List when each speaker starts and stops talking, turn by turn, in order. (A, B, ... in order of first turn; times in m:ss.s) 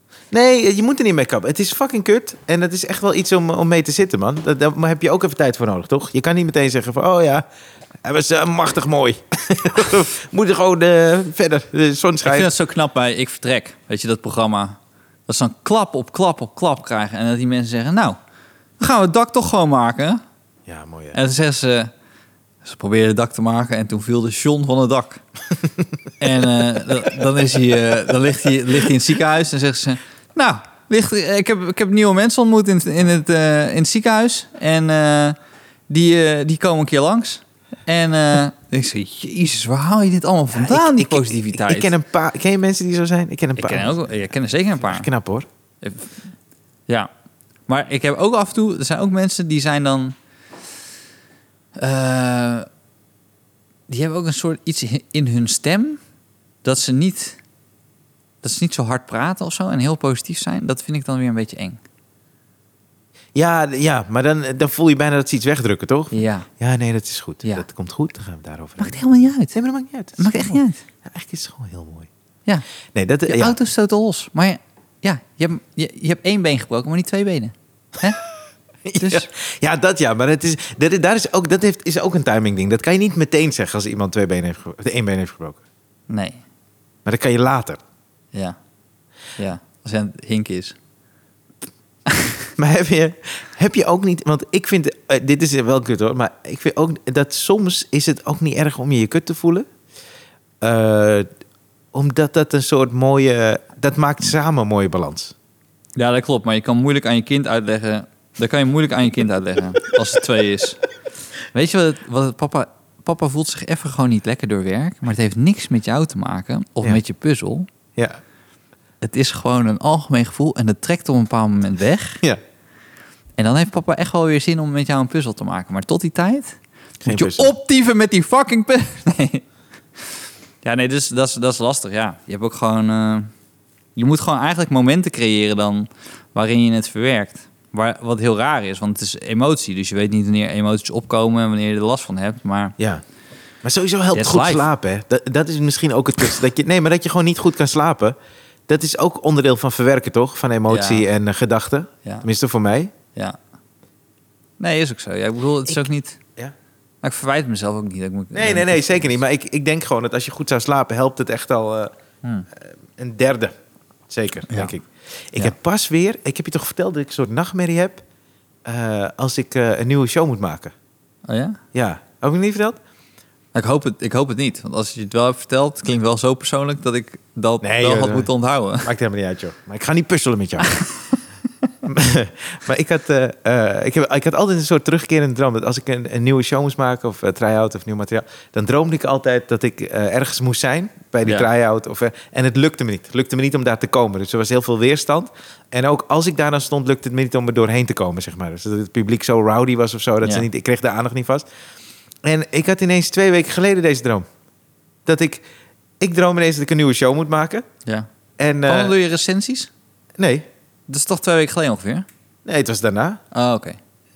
0:00.3-0:07.4 A
0:08.0-0:12.5 A
0:12.2-0:18.2 B
0:18.8-0:20.2 B
0:20.7-0:21.2 A
0:21.1-0:21.9 B
0:22.6-0:25.2 B
0:26.2-0:35.4 B
0:35.9-0:41.9 B
0:40.5-0:44.1 A
0:43.6-0:45.1 B
0:44.8-0:45.5 A
0:45.8-0:46.2 B
0:47.7-0:50.2 B
0:51.8-0:52.7 B
0:53.9-0:56.0 B
0:56.6-0:57.4 B
0:58.4-1:01.8 B
1:03.3-1:09.0 A
1:06.1-1:06.5 B
1:08.8-1:09.5 B
1:09.5-1:12.1 A
1:10.2-1:10.8 B
1:12.9-1:13.6 A
1:13.3-1:18.2 B
1:18.8-1:25.6 A
1:19.0-1:19.3 B
1:26.1-1:26.4 B
1:27.0-1:27.8 A
1:29.4-1:30.8 B
1:32.1-1:32.4 B
1:32.6-1:39.7 A
1:40.6-1:41.2 A
1:41.9-1:45.3 A
1:46.0-1:50.8 B
1:51.5-1:57.7 B
1:59.0-2:02.2 B
2:03.4-2:09.4 B
2:07.0-2:07.5 A
2:10.6-2:13.3 B
2:14.0-2:22.7 B
2:23.6-2:28.2 A
2:24.1-2:24.7 B
2:28.7-2:32.9 A
2:30.7-2:31.0 B
2:34.6-2:36.2 B
2:37.0-2:39.2 B
2:38.3-2:41.9 A
2:42.5-2:43.5 A
2:44.1-2:48.0 A
2:44.5-2:44.8 B
2:48.6-2:50.7 A
2:51.3-2:51.6 B
2:51.7-2:52.8 A
2:53.5-2:58.9 B
2:57.6-2:58.3 A
2:58.8-3:00.8 A
3:00.7-3:01.2 B
3:01.8-3:21.4 A
3:22.2-3:24.2 A
3:25.0-3:25.4 A
3:26.0-3:27.6 A
3:28.4-3:28.9 A
3:28.6-3:29.7 B
3:30.2-3:30.4 A
3:30.9-3:32.0 B
3:32.4-3:33.2 A
3:33.3-3:33.8 B